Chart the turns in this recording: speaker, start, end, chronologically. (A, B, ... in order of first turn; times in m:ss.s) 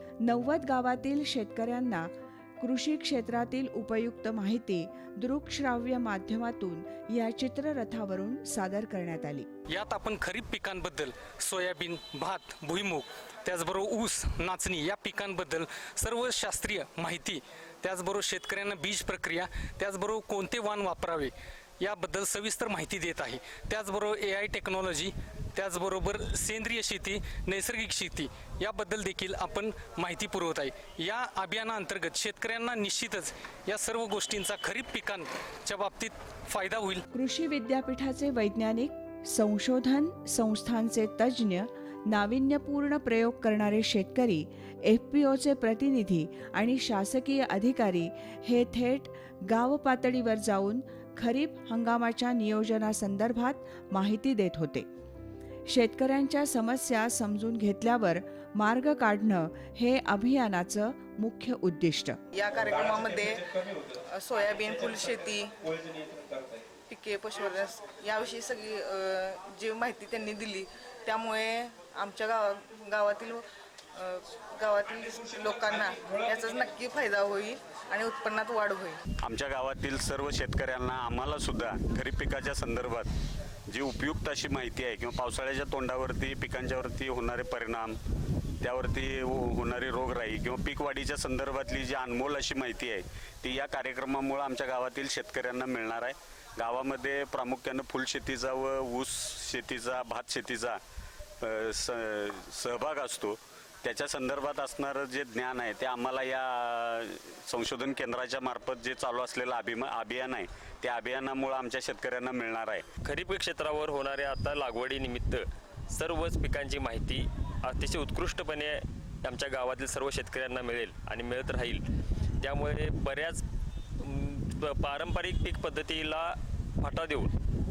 0:00.2-0:09.5 A
0:09.7-0:37.0 B
0:37.1-0:54.9 A
0:55.7-1:02.2 A
1:02.4-1:03.4 C
1:04.0-1:05.5 C
1:06.9-1:13.4 C
1:14.0-1:19.0 C
1:19.2-1:23.1 D
1:23.7-1:28.0 D
1:28.6-1:40.8 D
1:41.4-1:52.8 D
1:53.0-2:01.8 E
2:02.4-2:03.4 E
2:04.0-2:07.3 E